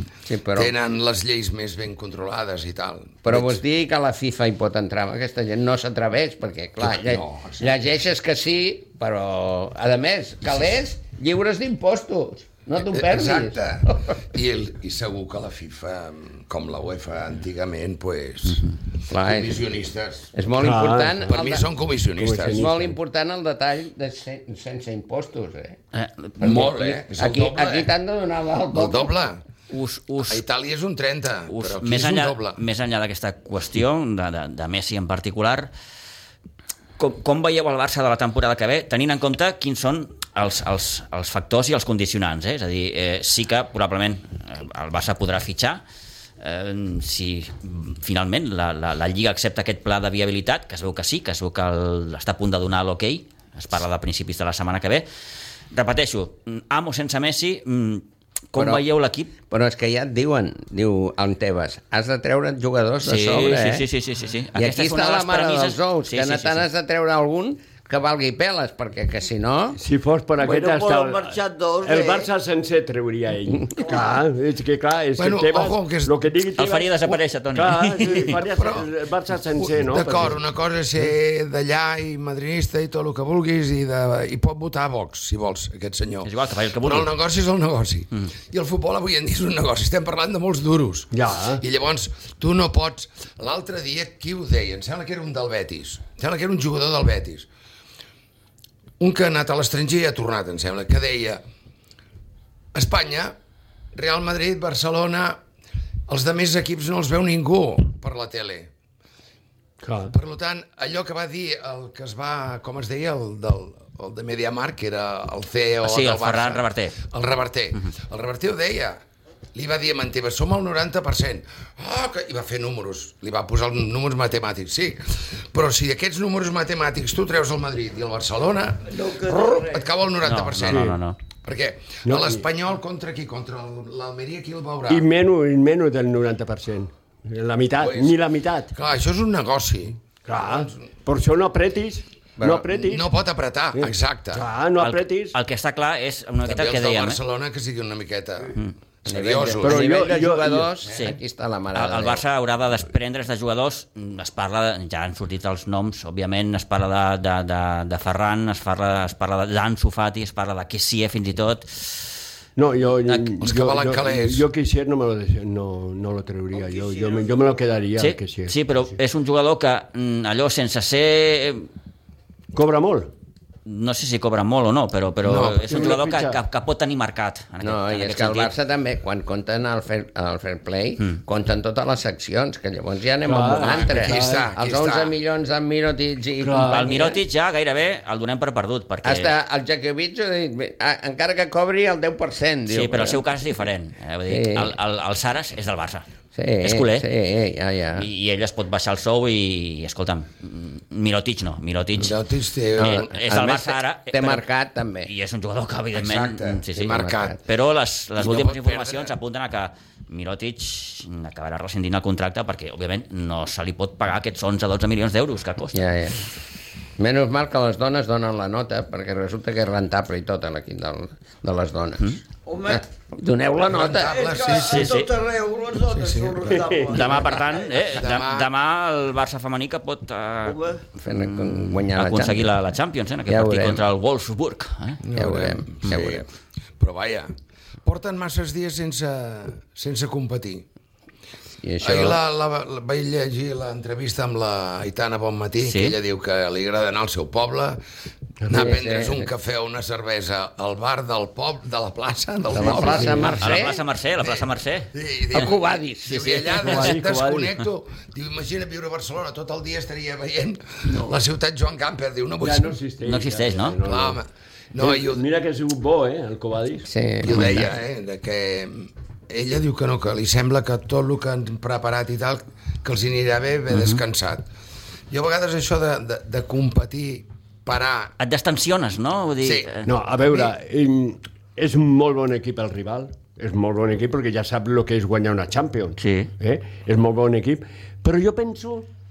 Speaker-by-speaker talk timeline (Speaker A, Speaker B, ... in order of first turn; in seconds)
Speaker A: 0.3-0.7, 3.2-14.1, 19.1-19.6, 20.3-21.6, 22.5-25.8, 26.4-29.1, 58.6-58.8, 59.5-63.9, 64.5-69.8, 142.4-142.7, 149.1-152.2, 177.6-187.2, 189.0-193.2, 194.3-194.7, 196.3-198.1, 202.8-205.1, 206.9-207.4, 215.7-216.2, 217.0-224.3, 231.0-232.5, 233.3-233.8, 235.1-236.3, 241.6-242.2, 248.5-249.3, 252.5-253.8, 255.3-256.4, 266.9-267.7
Speaker B: 0.5-3.6, 6.8-7.7, 12.8-20.3, 21.3-22.7, 26.4-27.9, 28.7-29.4, 30.2-32.6, 75.2-76.1, 78.4-78.9, 79.6-97.5, 99.0-101.4, 102.7-103.4, 103.9-105.4, 106.1-108.7, 110.0-119.0, 119.5-135.1, 137.8-138.2, 138.7-140.9, 142.7-144.5, 146.4-149.9, 163.4-164.5, 175.2-175.8, 183.6-185.2, 202.0-203.1, 205.9-207.4, 208.2-209.1, 223.7-225.1, 225.8-227.2, 227.8-228.5, 235.0-236.3, 236.8-237.3, 237.8-240.7, 241.8-247.8, 248.5-253.4, 254.2-262.8, 263.8-265.3, 267.2-274.5, 275.1-278.1, 279.4-279.7
Speaker C: 20.6-21.3, 22.2-22.9, 69.8-80.4, 91.1-91.6, 109.8-110.1, 130.7-131.0, 132.1-132.4, 134.9-138.7, 140.2-143.1, 143.8-145.4, 149.6-150.7, 162.6-168.6, 172.5-173.1, 175.7-176.4, 183.2-184.5, 186.4-187.1, 226.5-227.0, 248.4-248.7, 252.6-253.4, 256.6-257.6, 262.4-264.2, 264.8-266.9, 279.9-288.9
Speaker D: 25.9-26.3, 29.7-30.4, 31.5-35.7, 37.0-45.8, 46.4-55.1, 55.7-59.3, 63.0-66.7, 76.5-78.4, 86.2-87.1, 115.8-117.0, 130.2-131.2, 144.8-147.2, 151.8-162.1, 168.0-171.7, 173.7-178.5, 186.7-189.3, 192.7-196.1, 196.6-197.1, 198.0-202.2, 202.8-204.4, 205.1-215.8, 224.5-225.1, 226.9-235.0, 245.6-246.0, 253.4-254.9, 256.1-256.9, 263.1-263.8, 267.3-267.6, 273.7-274.0, 278.2-279.9, 286.0-286.3
Speaker E: 70.4-72.3, 73.8-74.2, 128.9-129.9, 166.5-167.5, 222.5-222.8, 224.1-227.7, 230.4-230.8